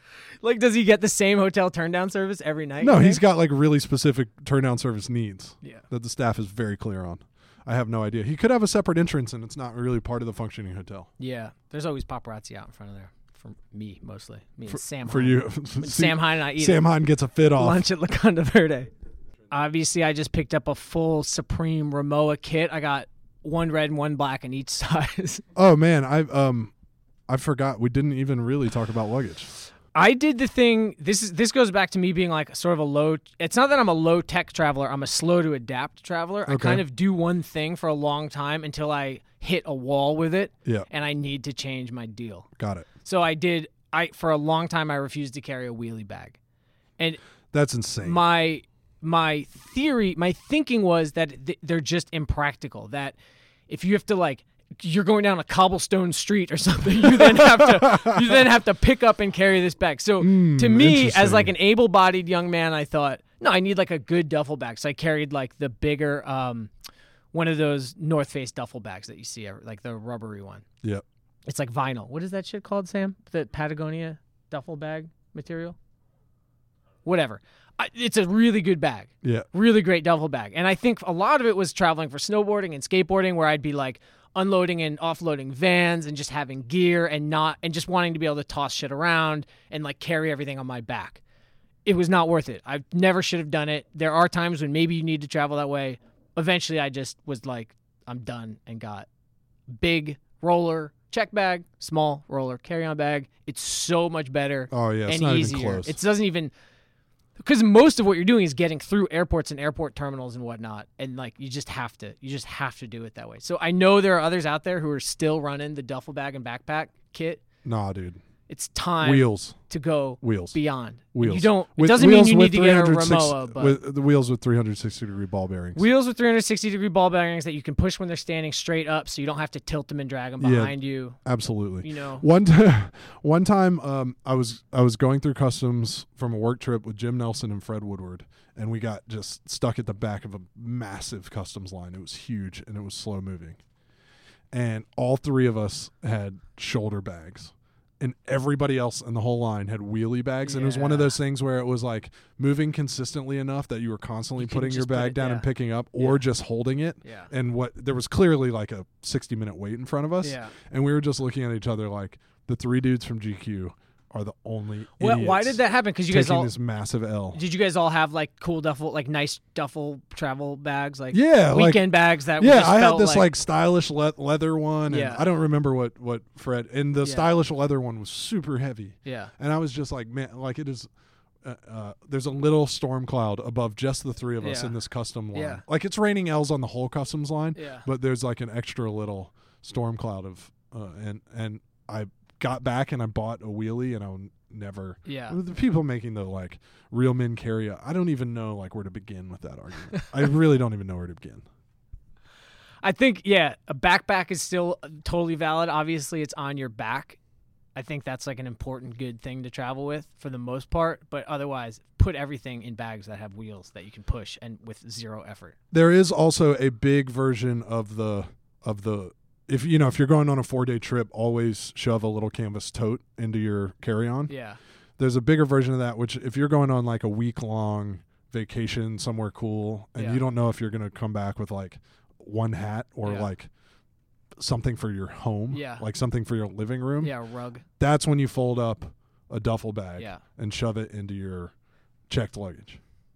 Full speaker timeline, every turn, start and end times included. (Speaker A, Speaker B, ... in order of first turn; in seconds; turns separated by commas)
Speaker A: 0.4-3.2, Speaker B: 2.8-11.1, Speaker A: 11.2-16.8, Speaker B: 14.7-17.9, Speaker A: 17.6-18.9, Speaker A: 19.5-25.4, Speaker B: 25.6-26.7, Speaker B: 27.3-29.5, Speaker A: 29.9-42.5, Speaker B: 36.5-36.8, Speaker B: 42.6-42.9, Speaker A: 43.0-46.4, Speaker B: 47.5-48.2, Speaker A: 48.0-53.2, Speaker A: 53.7-66.7, Speaker B: 57.1-58.3, Speaker B: 60.2-61.5, Speaker A: 67.3-70.7, Speaker A: 71.5-75.8, Speaker A: 77.0-91.2, Speaker B: 79.2-79.5, Speaker A: 91.8-99.1, Speaker A: 99.7-106.5, Speaker B: 104.7-106.0, Speaker A: 107.4-117.4, Speaker B: 117.6-118.2, Speaker A: 118.5-123.8, Speaker B: 119.0-119.6, Speaker B: 120.2-120.5, Speaker B: 121.1-125.8, Speaker A: 125.8-131.2, Speaker B: 130.4-143.6, Speaker A: 131.8-132.2, Speaker B: 144.5-167.4, Speaker A: 150.4-151.2, Speaker A: 154.4-155.5, Speaker A: 156.0-156.2, Speaker A: 157.0-157.3, Speaker A: 160.2-160.6, Speaker A: 165.0-166.5, Speaker A: 167.3-173.3, Speaker B: 171.1-180.9, Speaker A: 174.9-175.2, Speaker A: 177.0-177.3, Speaker A: 179.1-179.3, Speaker B: 181.4-201.5, Speaker A: 184.4-184.7, Speaker A: 185.3-185.6, Speaker A: 187.6-187.9, Speaker A: 195.1-195.4, Speaker A: 202.8-207.2, Speaker A: 207.8-215.6, Speaker B: 215.7-224.3, Speaker A: 224.3-224.6, Speaker B: 225.0-233.5, Speaker B: 234.4-237.1, Speaker A: 235.5-235.8, Speaker A: 237.0-237.6, Speaker B: 237.8-241.5, Speaker B: 242.1-242.8